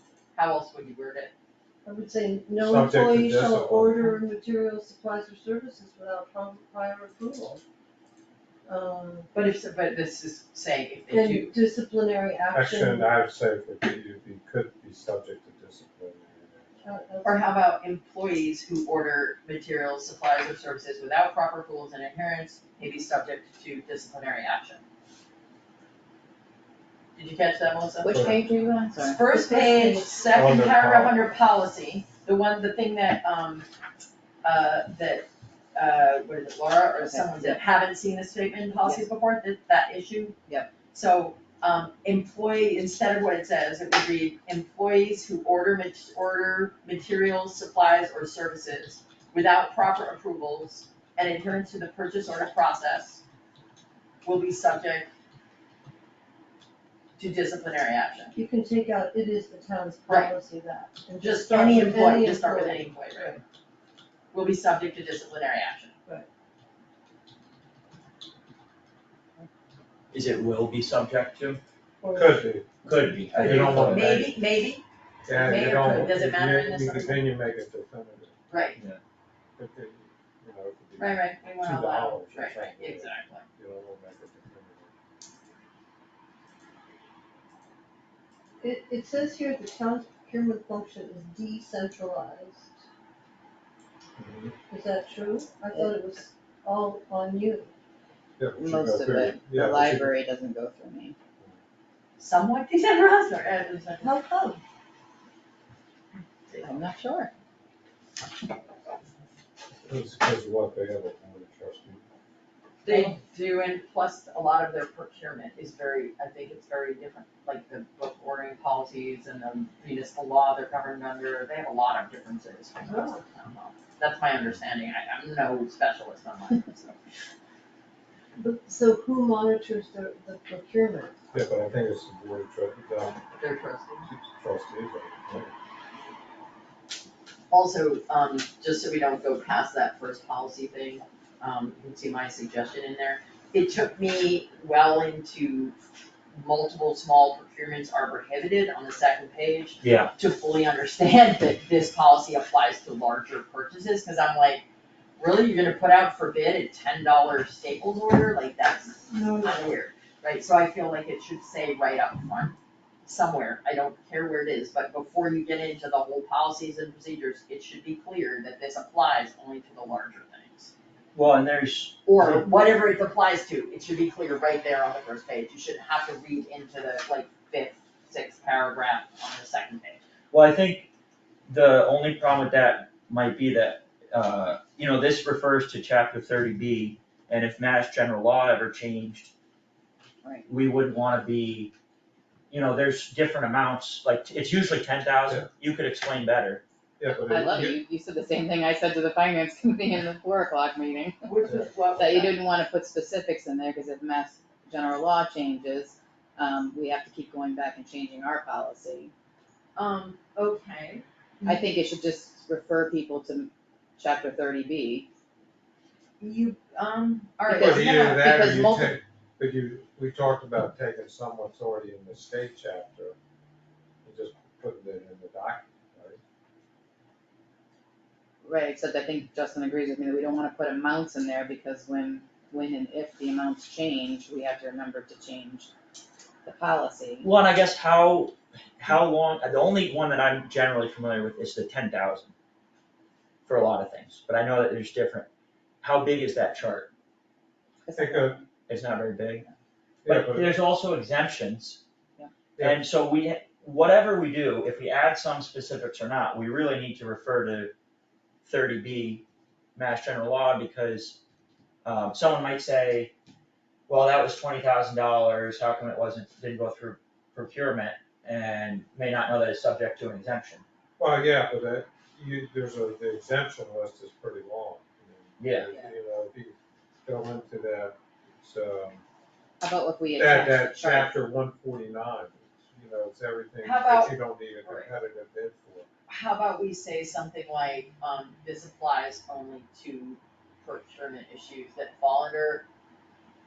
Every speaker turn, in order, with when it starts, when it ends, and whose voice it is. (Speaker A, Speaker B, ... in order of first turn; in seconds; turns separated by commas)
Speaker A: 0.3-1.3, Speaker B: 1.9-7.6, Speaker C: 2.6-4.1, Speaker B: 8.7-9.3, Speaker A: 9.3-11.6, Speaker B: 11.1-13.1, Speaker C: 12.5-16.8, Speaker B: 16.8-17.5, Speaker A: 17.2-24.8, Speaker A: 27.2-28.2, Speaker D: 28.0-29.2, Speaker C: 28.1-28.4, Speaker A: 29.0-33.7, Speaker B: 29.2-30.2, Speaker C: 30.3-31.2, Speaker A: 34.4-40.4, Speaker D: 37.0-37.6, Speaker A: 40.9-53.2, Speaker A: 54.2-55.1, Speaker A: 57.2-58.3, Speaker B: 58.4-63.4, Speaker A: 60.1-60.3, Speaker A: 61.2-63.4, Speaker A: 64.3-65.9, Speaker E: 70.1-71.6, Speaker B: 72.0-72.6, Speaker C: 72.2-72.7, Speaker E: 72.8-74.2, Speaker B: 73.3-74.1, Speaker A: 73.5-77.3, Speaker C: 73.7-74.3, Speaker C: 75.3-78.3, Speaker A: 78.5-78.8, Speaker C: 79.6-84.9, Speaker A: 81.0-83.5, Speaker B: 88.6-92.8, Speaker C: 94.2-94.5, Speaker B: 94.7-97.7, Speaker C: 98.4-100.1, Speaker D: 98.6-101.2, Speaker A: 102.2-104.1, Speaker B: 104.0-104.6, Speaker A: 106.5-106.9, Speaker D: 106.6-107.3, Speaker C: 109.9-112.0, Speaker A: 112.8-127.0, Speaker B: 112.9-113.1, Speaker B: 122.8-123.2, Speaker B: 128.4-131.2, Speaker C: 131.3-133.2, Speaker A: 133.4-134.1, Speaker C: 134.1-135.5, Speaker A: 137.5-145.8, Speaker A: 146.3-154.7, Speaker E: 149.8-150.1, Speaker A: 155.2-170.7, Speaker B: 159.1-159.6, Speaker E: 171.2-172.5, Speaker A: 172.1-180.0, Speaker E: 180.3-180.9, Speaker E: 181.5-189.3, Speaker E: 190.5-191.7, Speaker E: 192.5-196.6, Speaker C: 197.0-197.8, Speaker D: 197.2-209.1, Speaker A: 201.2-202.4, Speaker A: 209.8-211.6, Speaker D: 211.4-215.1, Speaker A: 216.2-218.6, Speaker D: 217.5-219.0, Speaker C: 217.6-223.2, Speaker C: 224.0-226.2, Speaker D: 228.4-235.7, Speaker D: 236.4-237.3, Speaker E: 237.2-242.3, Speaker E: 243.5-245.3, Speaker E: 245.8-246.9, Speaker D: 247.8-248.5, Speaker C: 248.0-248.4, Speaker E: 248.7-249.5, Speaker C: 250.0-250.5, Speaker E: 250.1-251.8, Speaker E: 252.6-257.7, Speaker E: 258.4-259.2, Speaker E: 259.8-261.2, Speaker E: 261.8-263.1, Speaker E: 263.9-270.6, Speaker C: 271.0-279.0, Speaker E: 275.4-275.7, Speaker D: 275.7-275.9, Speaker D: 279.6-281.1, Speaker C: 280.1-285.9, Speaker A: 283.6-284.9, Speaker A: 286.1-292.6